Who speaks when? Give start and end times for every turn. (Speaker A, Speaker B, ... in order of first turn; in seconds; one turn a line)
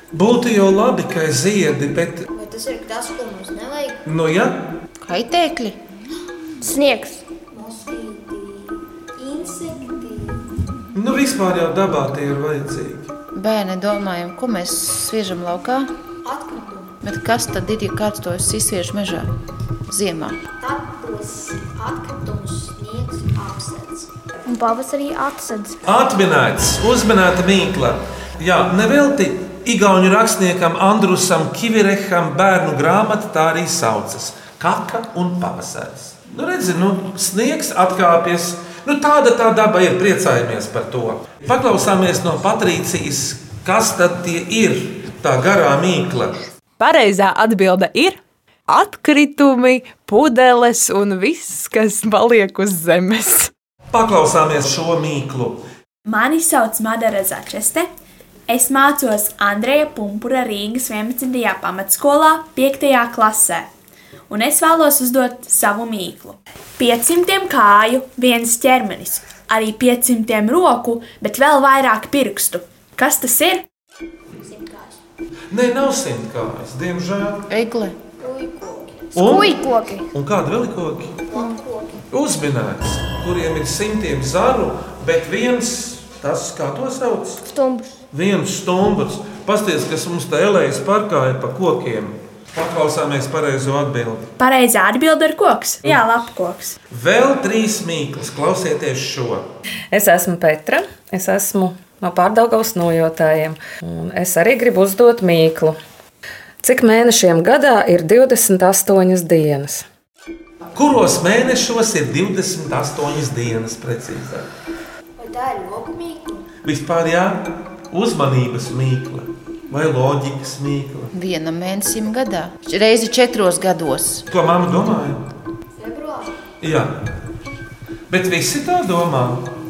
Speaker A: 0.1-2.3
Speaker B: 2.3-4.0
Speaker A: 4.0-4.6
Speaker C: 5.1-5.8
Speaker D: 6.6-7.2
Speaker B: 7.5-10.5
Speaker A: 10.9-13.1
Speaker C: 13.3-15.9
Speaker B: 16.2-17.0
Speaker C: 17.0-19.3
Speaker C: 19.9-20.4
Speaker B: 20.6-24.1
Speaker D: 24.5-25.8
Speaker A: 25.8-46.4
Speaker E: 46.8-53.5
Speaker A: 53.9-55.6
Speaker F: 56.1-57.9
Speaker F: 58.5-63.7
Speaker F: 64.3-73.6
Speaker B: 74.4-75.0
Speaker A: 75.5-77.4
Speaker C: 77.5-78.0
Speaker B: 78.2-79.2
Speaker A: 79.2-81.2
Speaker D: 79.2-80.1
Speaker B: 81.3-82.0
Speaker A: 82.1-87.5
Speaker D: 87.5-88.0
Speaker A: 88.1-94.3
Speaker F: 94.4-96.8
Speaker A: 96.9-99.5
Speaker G: 99.9-105.8
Speaker G: 106.6-109.9
Speaker A: 110.8-114.5
Speaker B: 115.2-116.5
Speaker A: 116.6-121.1
Speaker C: 121.1-124.3
Speaker A: 124.3-125.3
Speaker B: 125.8-126.4
Speaker A: 126.6-127.0
Speaker A: 128.1-129.5